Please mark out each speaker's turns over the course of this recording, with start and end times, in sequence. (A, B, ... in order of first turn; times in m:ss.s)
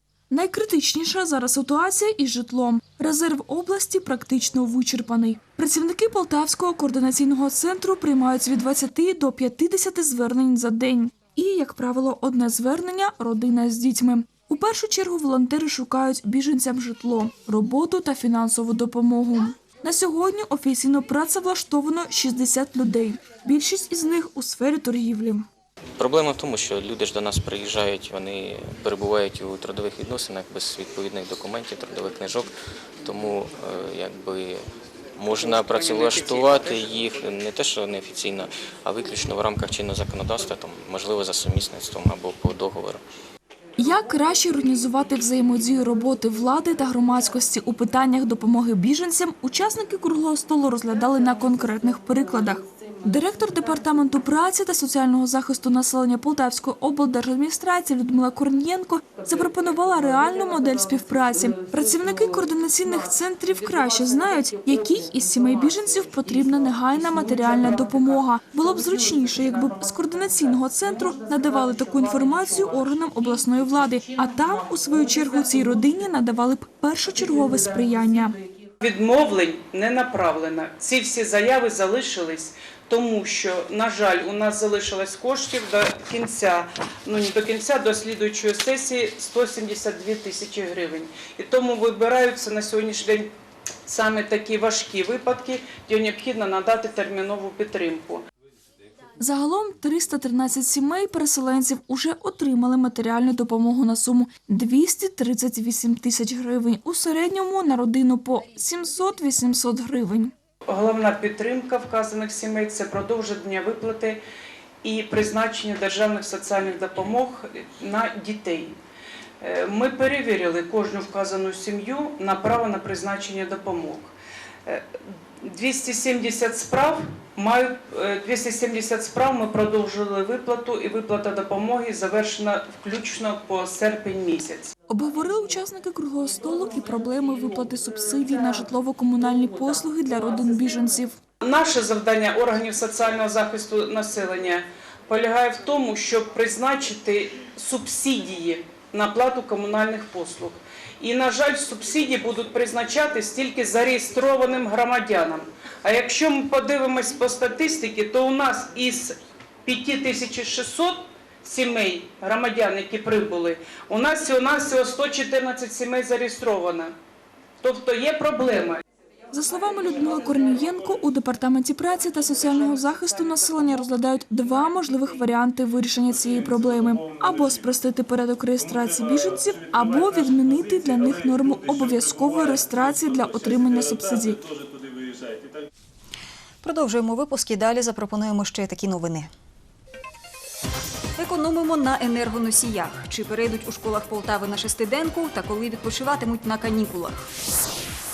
0:00.3-0:25.4 A
0:26.0-0:32.5 B
0:33.0-0:34.6 B
0:35.2-0:43.0 B
0:43.8-1:18.4 A
1:18.8-1:33.3 C
1:33.8-1:38.2 C
1:39.2-1:50.3 A
1:50.7-1:54.2 C
1:54.8-1:58.8 C
1:59.4-2:04.1 C
2:04.6-2:14.7 C
2:14.9-2:21.2 A
2:21.4-2:46.9 C
2:47.6-2:48.8 C
2:49.3-3:04.5 A
2:52.5-2:53.7 C
3:06.6-3:09.3 D
3:11.2-3:17.3 D